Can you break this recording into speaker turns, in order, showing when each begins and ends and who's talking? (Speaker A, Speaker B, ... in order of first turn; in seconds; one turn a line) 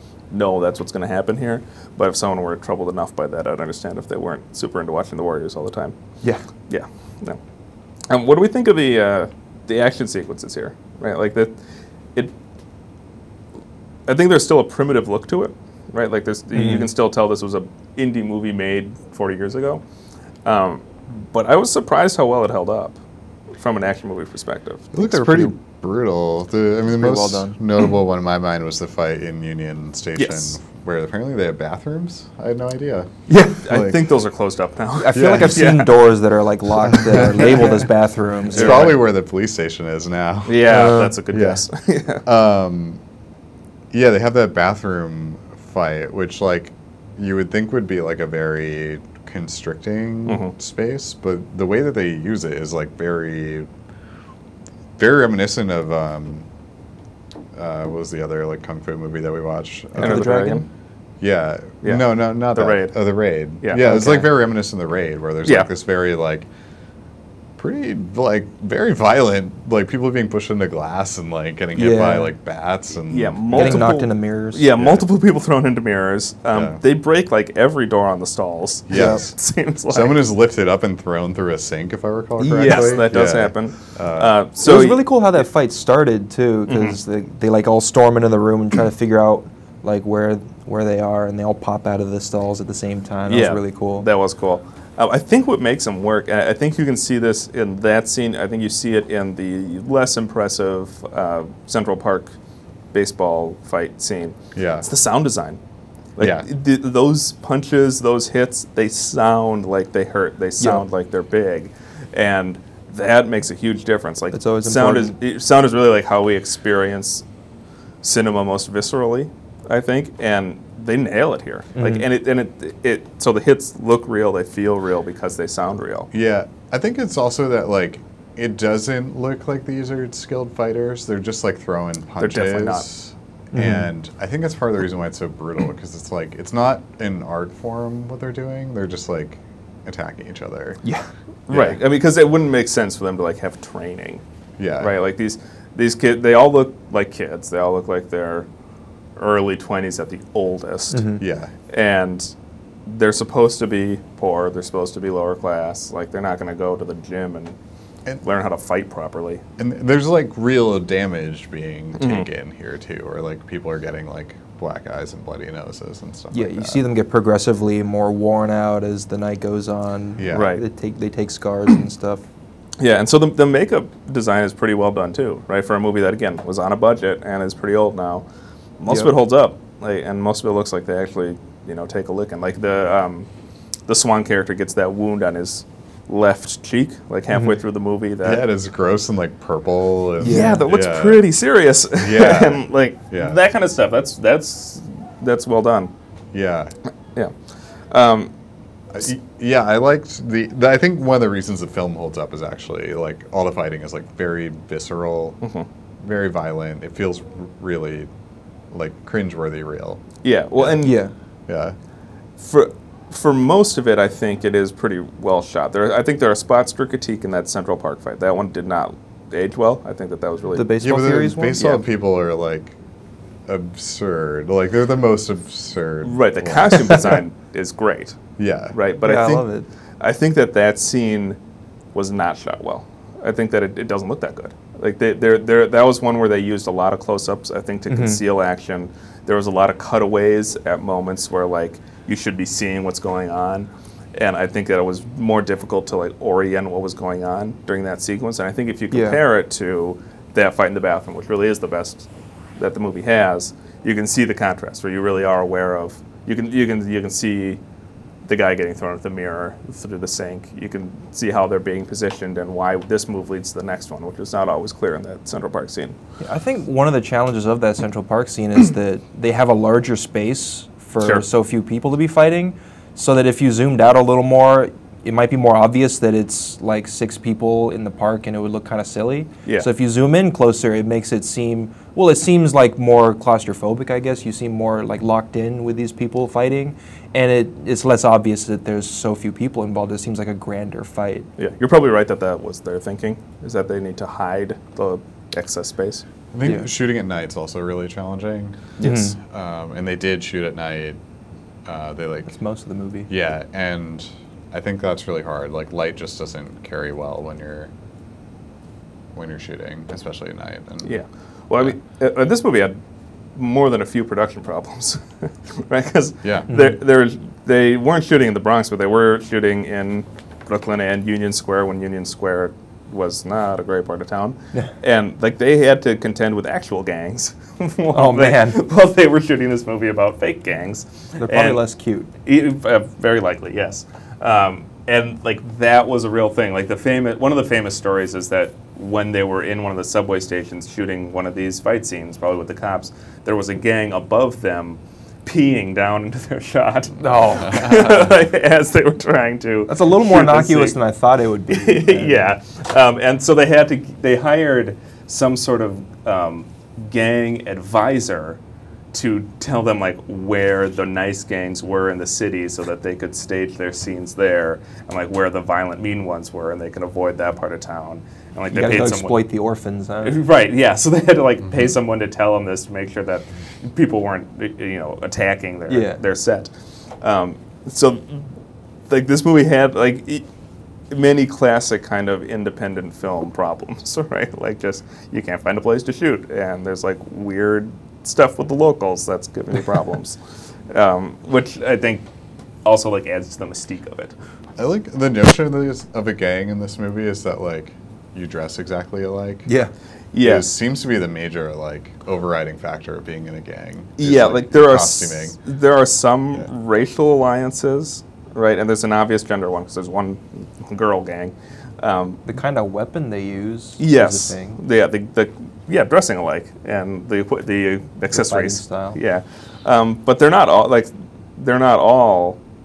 Speaker A: 0.3-5.9
Speaker A: 6.7-7.4
Speaker A: 8.1-11.5
Speaker A: 14.1-19.8
Speaker B: 16.5-16.9
Speaker A: 20.4-23.0
Speaker A: 23.6-24.9
Speaker C: 24.9-34.1
Speaker B: 24.9-25.5
Speaker B: 26.9-27.6
Speaker A: 30.2-30.5
Speaker A: 33.3-36.0
Speaker B: 35.0-39.0
Speaker C: 35.1-35.6
Speaker C: 36.9-37.9
Speaker C: 38.5-41.6
Speaker A: 38.5-39.0
Speaker A: 40.5-42.2
Speaker B: 40.7-41.1
Speaker C: 42.2-43.0
Speaker C: 43.9-53.7
Speaker A: 50.2-50.5
Speaker C: 55.0-56.5
Speaker C: 57.5-60.3
Speaker B: 60.0-60.6
Speaker A: 60.0-60.6
Speaker C: 61.2-66.5
Speaker A: 61.8-62.9
Speaker A: 63.6-64.0
Speaker B: 63.8-64.2
Speaker C: 67.6-73.9
Speaker B: 71.8-72.3
Speaker A: 73.1-80.2
Speaker B: 73.5-74.7
Speaker C: 74.8-75.0
Speaker C: 76.5-76.8
Speaker C: 78.9-79.3
Speaker B: 78.9-79.2
Speaker C: 79.9-84.3
Speaker B: 82.4-83.0
Speaker A: 82.5-85.1
Speaker B: 84.6-94.1
Speaker A: 86.7-87.0
Speaker A: 93.3-102.3
Speaker A: 102.9-105.6
Speaker C: 104.5-104.8
Speaker A: 106.2-117.2
Speaker C: 106.2-106.5
Speaker B: 114.3-115.1
Speaker A: 118.0-126.1
Speaker B: 121.8-122.0
Speaker C: 126.1-140.8
Speaker A: 132.2-132.8
Speaker B: 133.5-133.9
Speaker A: 141.5-144.2
Speaker C: 141.5-141.8
Speaker C: 144.6-144.9
Speaker A: 144.8-148.5
Speaker A: 149.2-151.1
Speaker B: 150.9-151.2
Speaker C: 151.2-151.5
Speaker A: 151.7-152.3
Speaker A: 152.8-157.6
Speaker A: 158.2-159.4
Speaker C: 159.6-166.8
Speaker A: 162.0-162.3
Speaker B: 166.3-172.2
Speaker C: 170.2-170.6
Speaker A: 170.3-170.6
Speaker A: 172.8-178.2
Speaker A: 178.8-183.3
Speaker A: 183.9-188.4
Speaker B: 187.3-187.6
Speaker C: 188.2-191.2
Speaker B: 190.2-190.6
Speaker A: 190.2-195.9
Speaker C: 191.9-193.4
Speaker C: 196.3-196.7
Speaker A: 197.9-198.3
Speaker C: 198.9-205.4
Speaker C: 206.0-208.1
Speaker C: 208.7-210.0
Speaker A: 210.2-211.0
Speaker B: 210.8-211.1
Speaker C: 211.5-211.7
Speaker A: 212.4-220.8
Speaker B: 220.5-221.6
Speaker C: 220.8-222.8
Speaker A: 221.5-221.8
Speaker C: 223.4-227.2
Speaker A: 226.0-228.2
Speaker C: 228.4-228.8
Speaker A: 228.7-229.5
Speaker B: 229.0-229.7
Speaker A: 230.0-231.4
Speaker A: 231.9-257.6
Speaker B: 237.9-238.2
Speaker B: 248.9-249.2
Speaker A: 258.2-265.9
Speaker B: 266.2-291.3
Speaker A: 291.4-296.0
Speaker C: 296.3-301.0
Speaker A: 298.8-299.1
Speaker B: 298.8-299.1
Speaker C: 301.6-302.3
Speaker B: 302.3-303.1
Speaker C: 303.1-307.7
Speaker C: 309.1-311.0
Speaker A: 310.8-312.8
Speaker A: 313.4-331.6
Speaker C: 316.2-316.5
Speaker B: 327.9-328.6
Speaker B: 331.2-332.1
Speaker A: 332.2-350.8
Speaker B: 347.0-347.8
Speaker B: 349.7-352.3
Speaker A: 351.5-358.4
Speaker A: 358.9-369.2
Speaker B: 368.5-370.2
Speaker A: 370.0-378.2
Speaker B: 375.7-376.0
Speaker A: 378.9-380.2
Speaker A: 380.9-390.2
Speaker A: 390.7-392.0
Speaker A: 392.6-394.1
Speaker C: 394.6-399.5
Speaker A: 400.1-400.5
Speaker C: 400.2-405.4
Speaker A: 404.0-412.2
Speaker B: 412.2-414.6
Speaker A: 413.8-422.4
Speaker B: 418.1-419.0